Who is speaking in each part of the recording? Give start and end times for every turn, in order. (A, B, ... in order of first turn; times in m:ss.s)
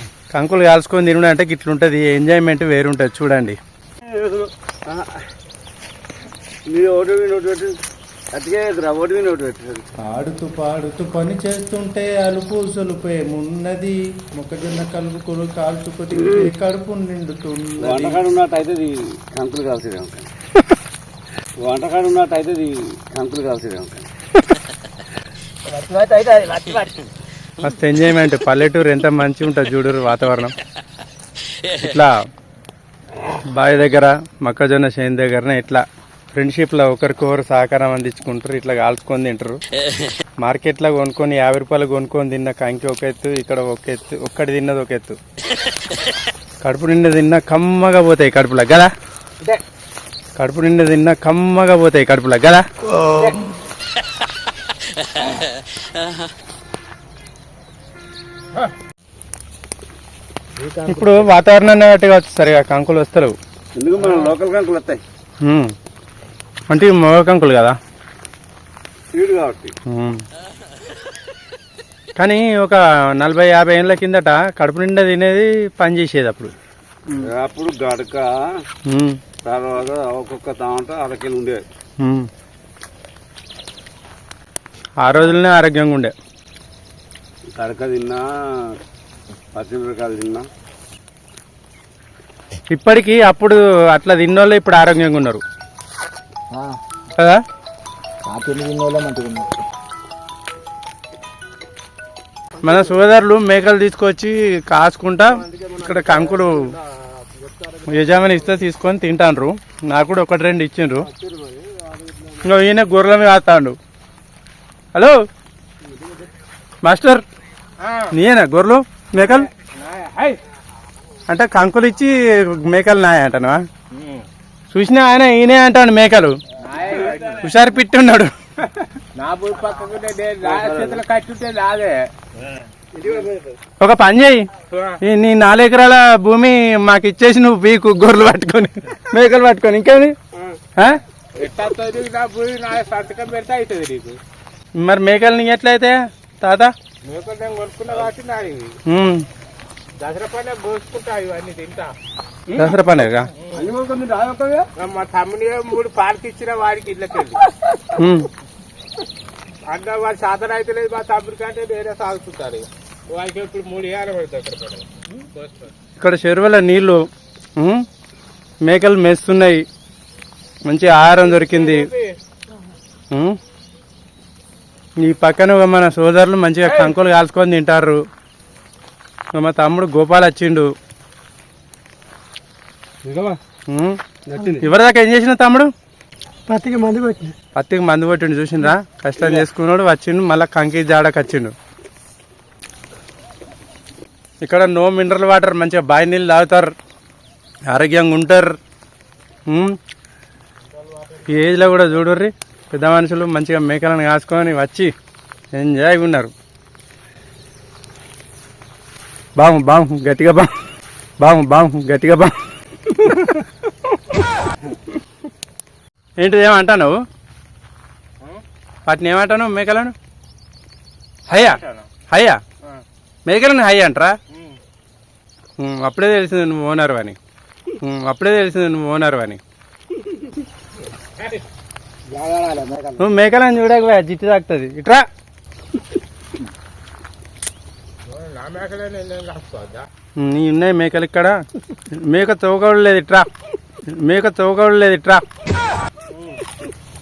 0:00.3-0:03.6 A
0:04.1-0:05.2 B
0:06.7-0:07.7 B
0:08.3-0:09.8 B
0:10.0-0:18.1 A
0:17.8-0:20.3 B
0:21.6-0:24.1 B
0:25.8-0:26.6 C
0:27.6-0:30.6 A
0:31.8-0:32.1 A
0:33.5-0:39.6 A
0:40.4-0:45.2 A
0:46.6-0:48.9 A
0:50.4-0:52.6 A
0:53.1-0:53.4 C
1:00.6-1:01.1 C
1:00.9-1:03.4 A
1:03.7-1:05.0 B
1:04.0-1:04.3 C
1:05.4-1:05.7 A
1:06.7-1:07.8 A
1:09.1-1:09.7 B
1:09.9-1:10.2 A
1:12.2-1:16.5 A
1:17.1-1:18.3 B
1:18.9-1:19.2 A
1:19.4-1:21.6 B
1:22.0-1:22.3 A
1:25.0-1:26.1 A
1:27.6-1:28.3 B
1:29.5-1:30.5 B
1:32.7-1:35.4 A
1:37.2-1:37.4 A
1:38.2-1:39.6 D
1:42.6-1:46.7 A
1:45.5-1:46.4 B
1:47.4-1:47.8 B
1:47.9-1:51.1 A
1:51.1-1:52.5 B
1:52.4-1:53.8 A
1:56.8-1:57.2 A
1:57.8-1:58.1 C
1:58.1-1:59.5 A
1:59.2-2:00.4 C
2:01.3-2:03.6 A
2:03.9-2:04.2 C
2:04.7-2:06.4 A
2:06.6-2:07.5 C
2:07.4-2:08.3 A
2:09.2-2:12.1 C
2:10.4-2:11.0 B
2:13.8-2:14.5 A
2:14.7-2:15.0 C
2:15.0-2:20.2 A
2:21.4-2:24.2 C
2:24.8-2:26.7 A
2:27.0-2:28.8 C
2:28.8-2:29.2 A
2:30.0-2:31.9 C
2:32.6-2:33.3 A
2:33.5-2:34.7 B
2:34.8-2:37.4 C
2:37.9-2:38.3 A
2:39.7-2:45.7 C
2:46.0-2:47.0 A
2:47.6-2:47.8 A
2:48.6-2:49.6 A
2:50.7-2:51.9 A
2:50.9-2:52.2 C
2:53.1-2:53.4 A
2:55.0-2:58.0 A
2:56.7-2:57.0 C
2:59.3-3:00.7 A
3:03.0-3:03.4 B
3:03.7-3:04.0 A
3:04.3-3:04.6 B
3:04.6-3:05.7 A
3:06.5-3:07.2 D
3:07.5-3:11.5 A
3:14.4-3:16.7 A
3:17.7-3:18.5 A
3:19.5-3:19.8 A
3:20.8-3:21.8 C
3:21.3-3:24.9 A
3:25.5-3:26.3 A
3:29.4-3:30.5 A
3:31.2-3:32.3 A
3:32.8-3:33.4 A
3:36.2-3:37.0 A
3:38.8-3:39.9 A
3:41.3-3:41.6 A
3:41.3-3:41.9 C
3:42.1-3:42.4 A
3:43.2-3:44.2 A
3:44.3-3:44.6 C
3:45.6-3:47.2 A
3:47.8-3:49.4 A
3:51.2-3:51.4 C
3:52.1-3:53.0 D
3:53.0-3:55.0 A
3:58.0-3:59.9 C
4:00.2-4:01.4 A
4:02.0-4:03.3 A
4:03.9-4:05.2 A
4:06.1-4:06.4 C